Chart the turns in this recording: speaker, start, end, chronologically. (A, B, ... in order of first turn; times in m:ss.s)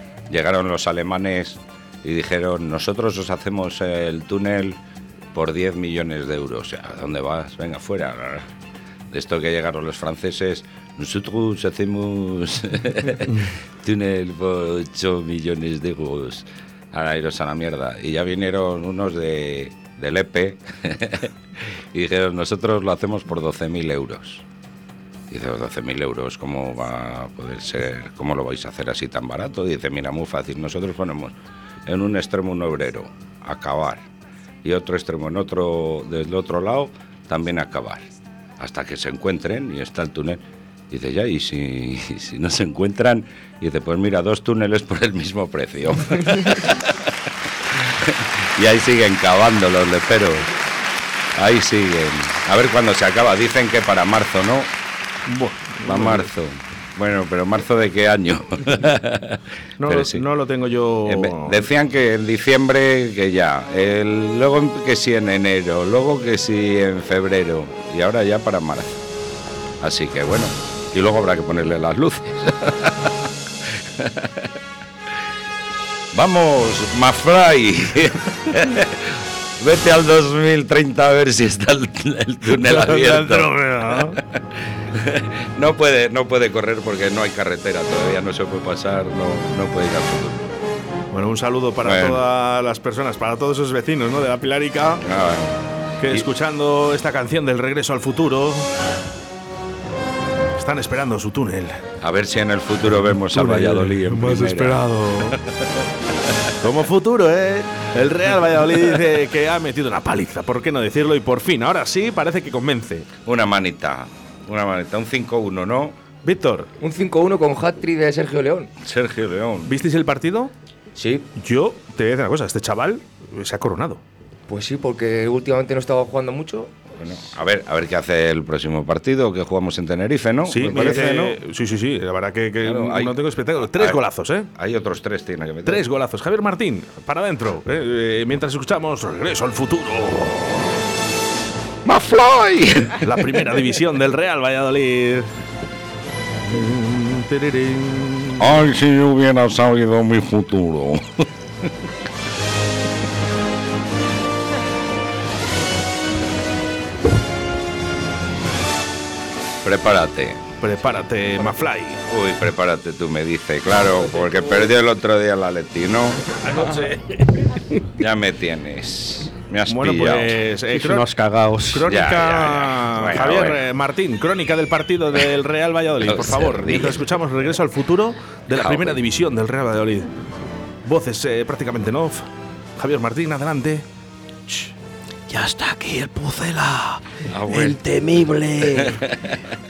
0:00.3-0:04.8 A
0:05.3-0:08.5 A
0:09.1-0:24.4 A
0:25.3-0:34.0 A
0:34.6-0:50.5 A
0:51.3-0:54.7 A
0:55.3-0:56.3 B
0:55.8-1:00.2 A
0:59.8-1:01.6 B
1:01.0-1:09.0 A
1:09.8-1:14.5 A
1:16.1-1:30.5 A
1:22.6-1:24.2 B
1:31.1-1:35.0 B
1:31.8-1:32.2 A
1:35.0-1:36.3 A
1:36.0-1:38.7 B
1:40.6-1:41.8 B
1:42.0-1:44.8 A
1:43.0-1:45.4 B
1:46.6-1:53.1 B
1:53.2-1:56.0 A
1:56.2-1:56.7 B
1:56.8-1:58.7 C
1:58.8-1:59.7 A
1:59.6-2:00.5 B
2:00.9-2:01.2 C
2:01.4-2:04.0 B
2:04.5-2:06.7 C
2:07.0-2:11.4 A
2:10.4-2:14.5 B
2:12.6-2:13.2 A
2:14.5-2:15.8 A
2:15.6-2:20.7 B
2:21.8-2:23.5 A
2:23.0-2:25.3 B
2:26.4-2:28.6 B
2:28.4-2:31.3 A
2:39.6-2:40.4 A
2:40.6-2:42.0 B
2:42.0-2:46.4 A
2:46.4-2:47.1 B
2:47.9-2:50.4 A
2:49.6-2:51.1 B
2:50.7-2:51.9 D
2:51.7-3:00.2 B
2:51.8-2:53.6 A
2:56.0-2:57.0 A
2:58.5-2:59.0 A
3:00.8-3:02.2 B
3:02.8-3:03.8 B
3:05.3-3:09.1 D
3:07.3-3:07.8 A
3:08.6-3:09.4 A